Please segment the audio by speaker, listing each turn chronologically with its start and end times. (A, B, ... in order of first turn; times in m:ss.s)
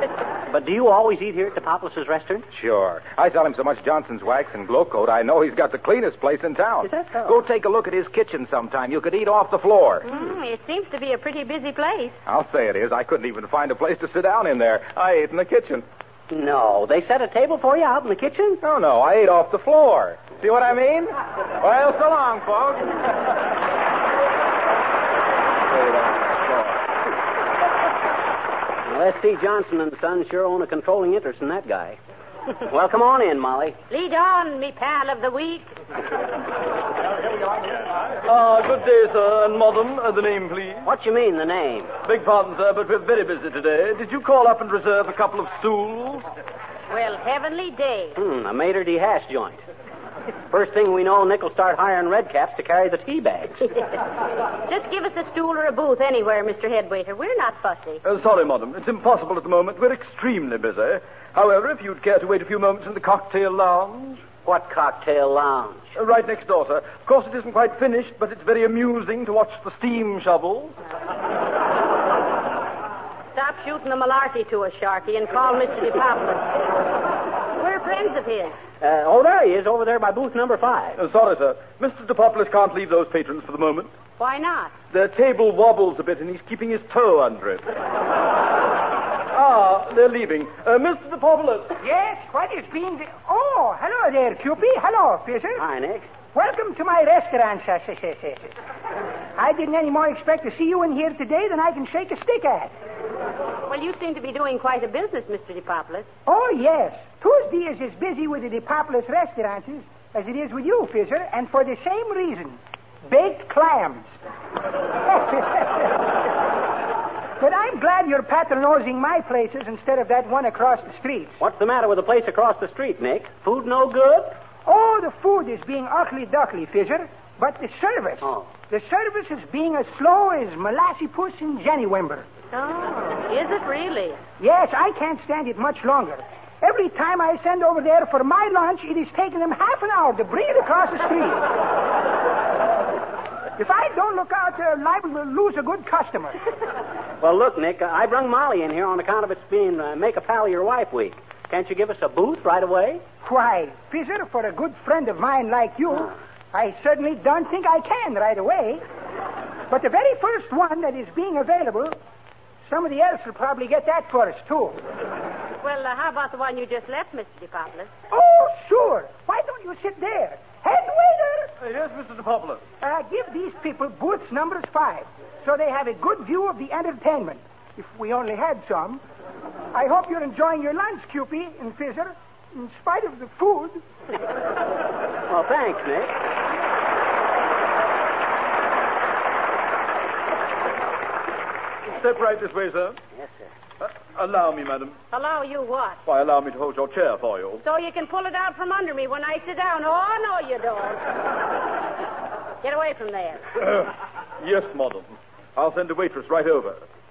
0:00.5-0:02.5 A
0:02.5-0:10.1 B
0:06.9-0:07.3 A
0:10.1-0:12.2 C
0:12.3-0:15.8 B
0:16.3-0:18.6 A
0:18.6-0:23.0 B
0:25.7-0:26.9 A
0:28.8-0:32.0 A
0:32.6-0:33.8 A
0:33.9-0:35.7 C
0:38.2-0:40.9 D
0:40.8-0:42.0 A
0:42.0-0:46.2 D
0:46.9-0:48.2 C
0:48.2-0:49.6 A
0:50.5-0:53.7 A
0:54.6-0:58.0 C
0:58.0-1:04.2 D
1:04.4-1:05.9 A
1:06.0-1:10.8 D
1:13.4-1:16.5 C
1:17.6-1:18.6 C
1:18.8-1:21.0 A
1:21.0-1:23.9 D
1:24.2-1:24.7 C
1:24.9-1:27.7 D
1:29.3-1:31.8 D
1:31.8-1:35.7 E
1:35.6-1:36.1 A
1:36.3-1:38.5 E
1:39.4-1:42.7 E
1:43.7-1:46.1 C
1:46.3-1:54.1 E
1:55.1-1:56.0 E
1:57.4-2:01.4 E
2:01.4-2:04.4 A
2:04.7-2:12.3 E
2:08.2-2:08.5 A
2:12.5-2:14.2 C
2:14.4-2:21.4 E
2:23.6-2:26.4 E
2:27.2-2:33.0 A
2:33.2-2:38.8 E
2:39.7-2:42.0 E
2:42.6-2:44.8 E
2:45.6-2:47.9 C
2:48.1-2:51.5 E
2:51.6-2:52.6 D
2:52.8-2:59.0 E
2:59.7-3:03.8 E
3:05.3-3:06.1 A
3:11.9-3:13.0 D
3:13.2-3:13.5 A
3:13.8-3:15.0 D
3:15.1-3:16.0 C
3:16.1-3:17.6 D
3:17.6-3:21.0 C
3:22.6-3:23.4 C
3:24.4-3:26.8 D